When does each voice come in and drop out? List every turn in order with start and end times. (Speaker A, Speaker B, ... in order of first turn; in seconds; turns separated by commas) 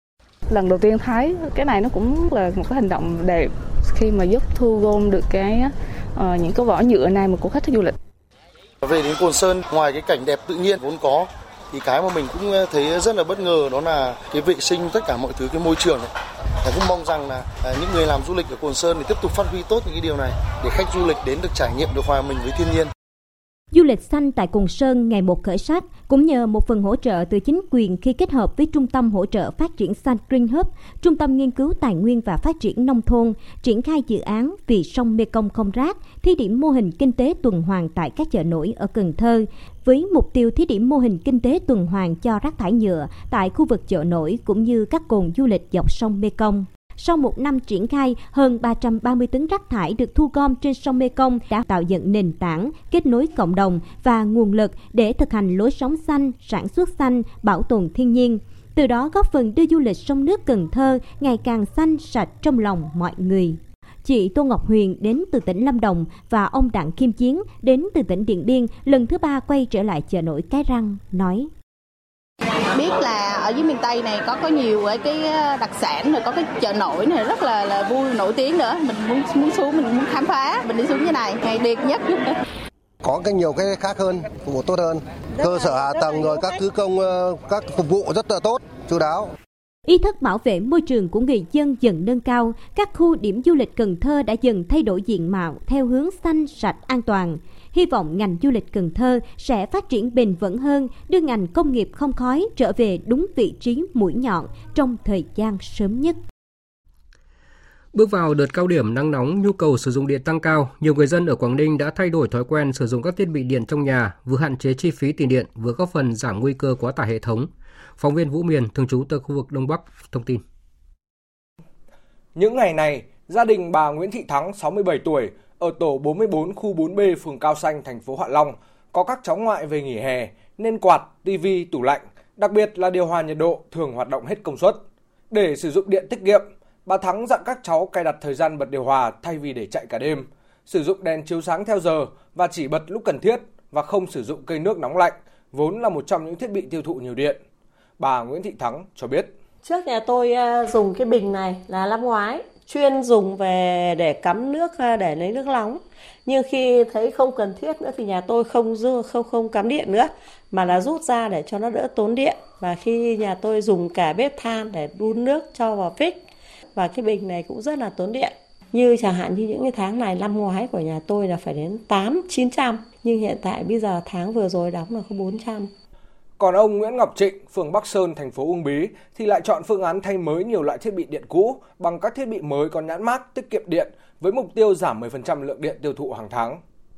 Speaker A: 0.5-8.0, Speaker B: 8.8-16.1, Speaker B: 16.6-22.9, Speaker C: 23.7-71.5, Speaker D: 72.7-82.3, Speaker E: 83.0-89.3, Speaker C: 89.9-106.2, Speaker F: 107.9-120.4, Speaker G: 122.3-147.4, Speaker G: 148.0-149.3, Speaker H: 149.6-166.2, Speaker H: 166.8-175.7, Speaker G: 176.4-186.6